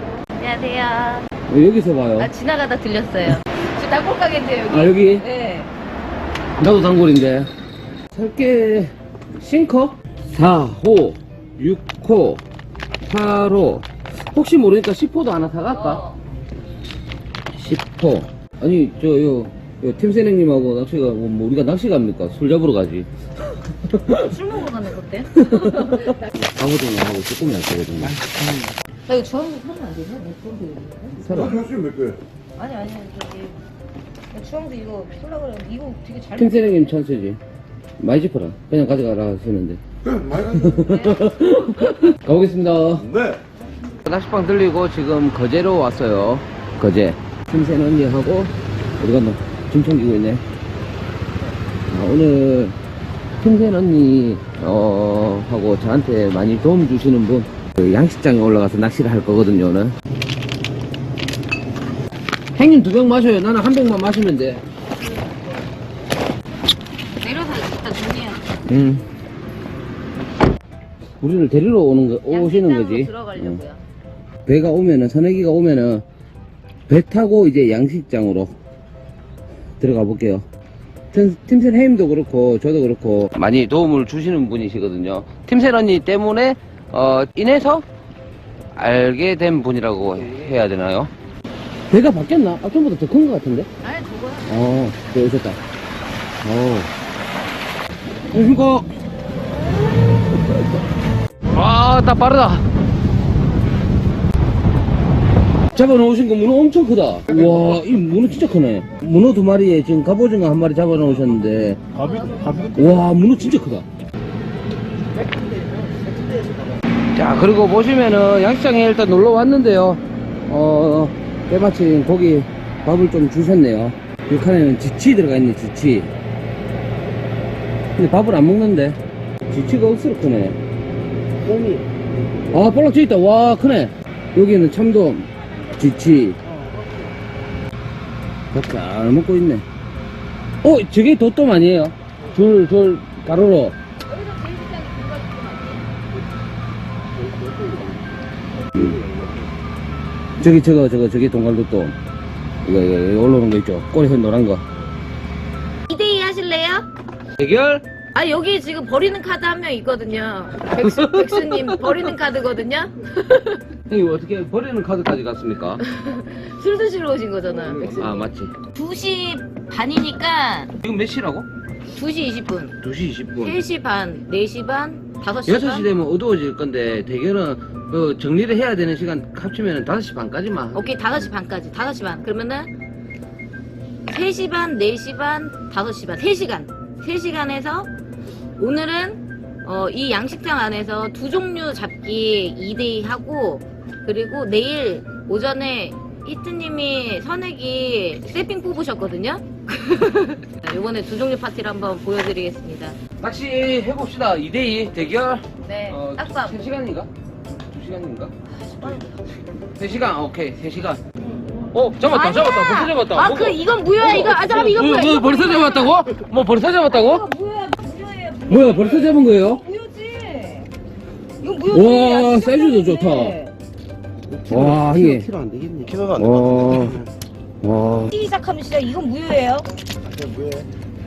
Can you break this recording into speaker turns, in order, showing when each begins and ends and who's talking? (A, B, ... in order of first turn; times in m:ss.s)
0:00.4-0:01.2 A
0:01.5-0:02.3 B
0:02.2-0:05.7 A
0:04.7-0:05.2 B
0:06.6-0:07.5 B
0:08.1-0:12.4 B
0:13.0-0:16.0 B
0:15.7-0:16.2 A
0:17.5-0:24.3 B
0:24.1-0:26.1 A
0:25.3-0:28.6 B
0:29.1-0:31.4 A
0:31.2-0:31.7 B
0:31.8-0:32.1 C
0:32.6-0:33.6 A
0:34.3-0:37.0 A
0:36.4-0:37.4 B
0:38.0-0:43.2 B
0:44.0-0:50.4 B
0:51.9-0:52.8 B
0:53.4-0:59.9 B
1:02.5-1:04.6 B
1:07.2-1:08.5 A
1:08.7-1:09.0 B
1:11.2-1:13.6 B
1:12.3-1:13.8 A
1:14.4-1:16.0 B
1:16.9-1:18.5 B
1:19.8-1:20.4 B
1:21.1-1:27.8 B
1:28.7-1:31.1 B
1:31.9-1:33.7 B
1:33.8-1:34.5 A
1:34.5-1:35.6 B
1:36.4-1:36.9 B
1:38.3-1:38.9 B
1:41.5-1:42.6 B
1:45.7-1:51.9 B
1:52.0-1:52.7 A
1:52.2-1:52.6 C
1:52.7-1:53.8 B
1:55.4-1:56.6 C
1:57.1-2:06.1 B
2:08.0-2:09.0 B
2:09.5-2:10.6 B
2:12.5-2:16.4 B
2:15.6-2:15.9 A
2:18.5-2:19.6 B
2:20.6-2:23.7 B
2:24.1-2:25.9 A
2:27.2-2:28.0 C
2:28.9-2:29.4 C
2:30.4-2:32.0 B
2:32.6-2:34.6 B
2:35.9-2:36.9 A
2:37.4-2:37.8 B
2:38.1-2:43.6 A
2:40.8-2:42.1 B
2:43.9-2:45.8 B
2:45.8-2:50.7 A
2:47.8-2:48.5 B
2:50.8-2:51.5 B
2:51.9-2:52.8 A
2:52.8-2:53.6 B
2:53.4-2:55.9 A
2:55.4-3:01.2 B
3:00.7-3:02.7 A
3:04.1-3:07.9 A
3:08.6-3:23.0 A
3:23.2-3:29.0 B
3:25.6-3:26.7 A
3:28.6-3:29.2 A
3:29.6-3:31.0 B
3:31.7-3:37.2 B
3:32.0-3:36.1 A
3:36.9-3:40.7 A
3:38.5-3:39.6 B
3:41.4-3:43.5 A
3:41.7-3:43.4 B
3:44.3-3:46.2 C
3:44.4-3:45.3 B
3:46.1-3:47.0 B
3:47.6-3:48.1 B
3:48.1-3:49.7 A
3:50.3-3:50.6 C